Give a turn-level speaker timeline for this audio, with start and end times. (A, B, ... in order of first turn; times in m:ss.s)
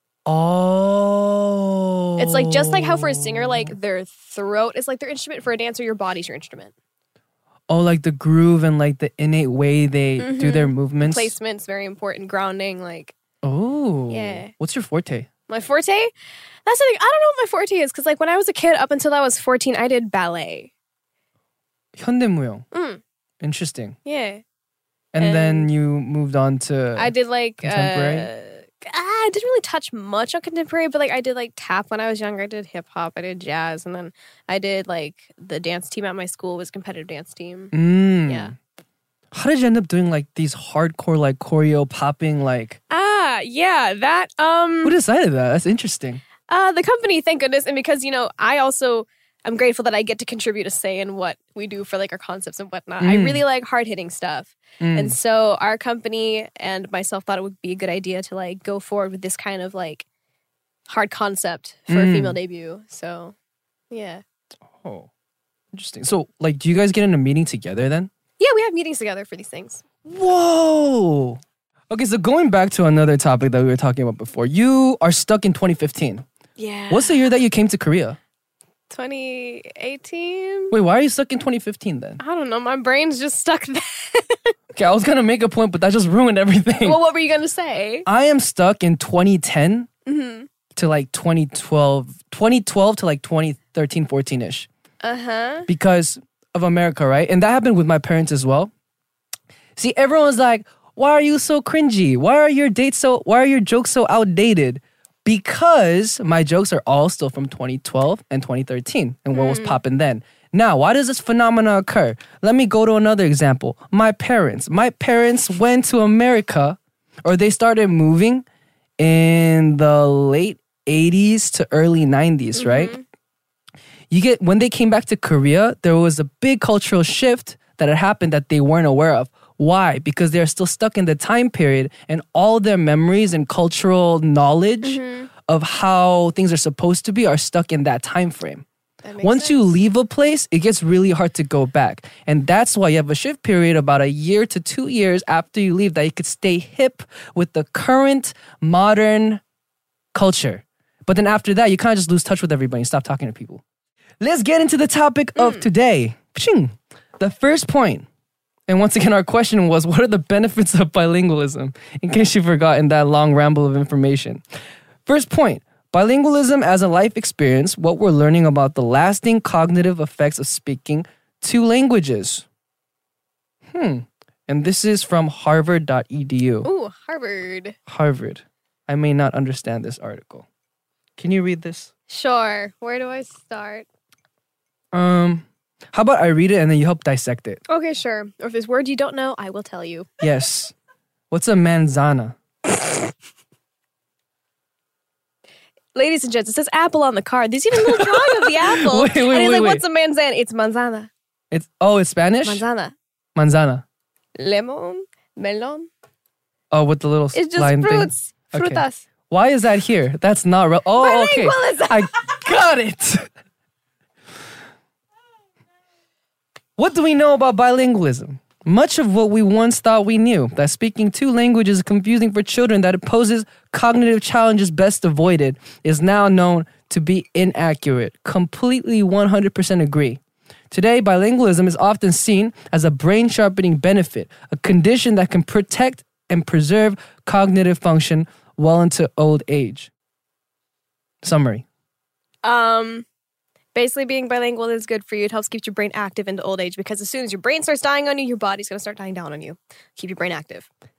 0:00.3-0:03.7 A
0:02.2-0:06.7 B
0:07.7-0:11.4 A
0:10.2-0:13.1 B
0:13.4-0:15.3 A
0:14.1-0:14.5 B
0:15.5-0:16.1 B
0:16.7-0:20.7 B
0:22.0-0:22.7 A
0:22.7-0:23.0 B
0:23.4-0:24.0 A
0:24.0-0:24.4 B
0:25.1-0:28.3 A
0:25.2-0:25.7 B
0:27.0-0:37.7 B
0:37.7-0:38.6 A
0:38.3-0:38.5 B
0:39.3-0:42.8 A
0:42.9-0:45.0 B
0:44.8-0:46.2 A
0:46.5-1:00.1 B
0:53.0-0:53.4 A
0:54.8-0:55.2 A
1:00.9-1:03.4 B
1:01.9-1:02.4 A
1:03.9-1:04.2 B
1:04.7-1:05.1 A
1:05.7-1:08.1 A
1:08.4-1:09.8 B
1:10.0-1:16.3 A
1:16.6-1:17.2 B
1:16.9-1:18.2 A
1:18.9-1:20.7 B
1:20.7-1:22.2 A
1:22.2-1:24.4 B
1:24.8-1:27.0 A
1:26.8-1:28.1 B
1:28.1-1:29.9 A
1:30.1-1:30.5 B
1:30.8-1:34.7 A
1:35.0-1:35.7 B
1:35.7-1:38.7 A
1:39.8-1:58.4 A
1:49.3-1:49.8 B
1:59.0-2:03.0 A
2:02.6-2:03.0 B
2:04.1-2:18.6 A
2:14.8-2:15.3 B
2:19.0-2:19.7 B
2:19.2-2:29.4 A
2:30.1-2:33.6 A
2:34.2-2:38.1 A
2:35.4-2:35.7 B
2:38.7-2:44.4 A
2:45.0-2:52.5 A
2:53.7-2:56.7 A
2:56.6-2:57.8 B
2:57.9-3:00.5 A
3:01.2-3:01.9 A
3:02.1-3:03.9 B
3:04.9-3:07.6 A
3:07.7-3:10.1 B
3:10.2-3:10.7 A
3:11.3-3:12.4 A
3:16.0-3:21.1 B
3:17.7-3:19.8 A
3:21.5-3:22.6 A
3:22.4-3:22.9 B
3:23.4-3:23.8 A
3:24.4-3:25.9 B
3:26.7-3:33.3 A
3:27.3-3:29.0 B
3:31.0-3:32.2 B
3:36.8-3:50.2 A
3:50.7-3:59.9 A
4:01.2-4:01.6 A
4:02.4-4:03.1 B
4:03.7-4:10.7 B